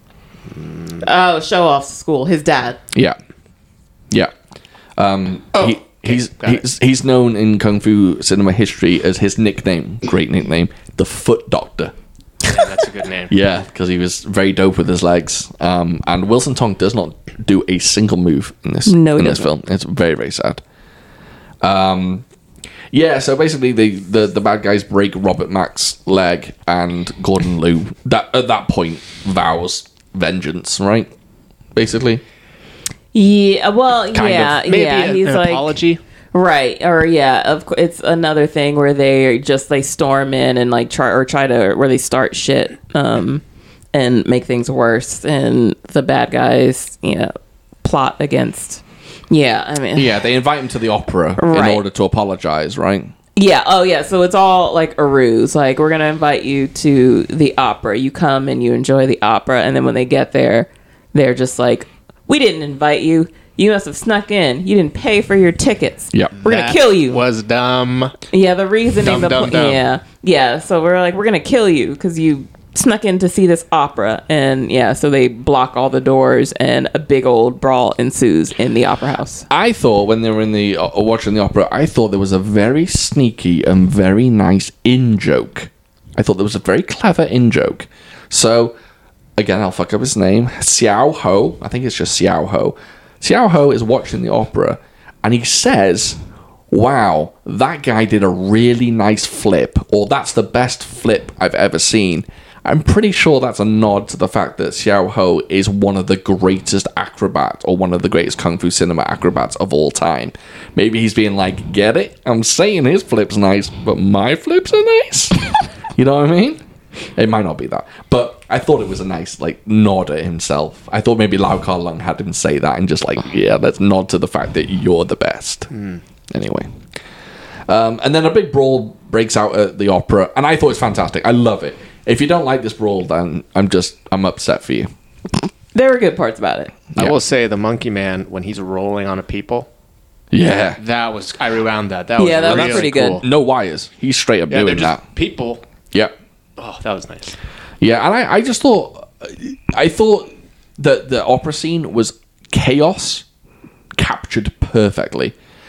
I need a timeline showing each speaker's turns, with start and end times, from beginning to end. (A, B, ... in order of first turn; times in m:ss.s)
0:00.5-0:01.0 A
0:01.0-0:02.8 B
0:05.0-0:11.9 C
0:05.6-0:06.6 A
0:12.5-0:13.3 A
0:13.3-0:20.6 C
0:18.8-0:19.5 B
0:21.6-0:22.2 C
0:22.9-0:31.1 C
0:31.8-0:32.2 C
0:33.1-0:35.7 B
0:34.1-0:34.6 C
0:34.6-0:36.0 A
0:36.3-0:43.4 B
0:43.9-0:47.3 B
0:47.8-0:50.2 B
0:50.0-0:53.1 C
0:51.4-0:51.8 B
0:53.4-1:07.2 B
1:06.4-1:08.2 A
1:08.3-1:19.5 B
1:09.0-1:09.8 A
1:19.5-1:28.8 C
1:29.4-1:36.2 C
1:36.7-1:55.4 C
1:56.0-1:56.6 C
1:57.2-2:05.7 C
2:05.7-2:06.0 A
2:06.3-2:06.7 C
2:07.7-2:14.9 C
2:15.7-2:16.8 B
2:17.0-2:19.7 A
2:20.3-2:20.8 C
2:20.8-2:23.2 A
2:22.2-2:23.2 B
2:22.5-2:25.0 C
2:24.5-2:25.6 A
2:26.6-2:27.4 A
2:27.8-2:33.2 C
2:34.0-2:35.4 C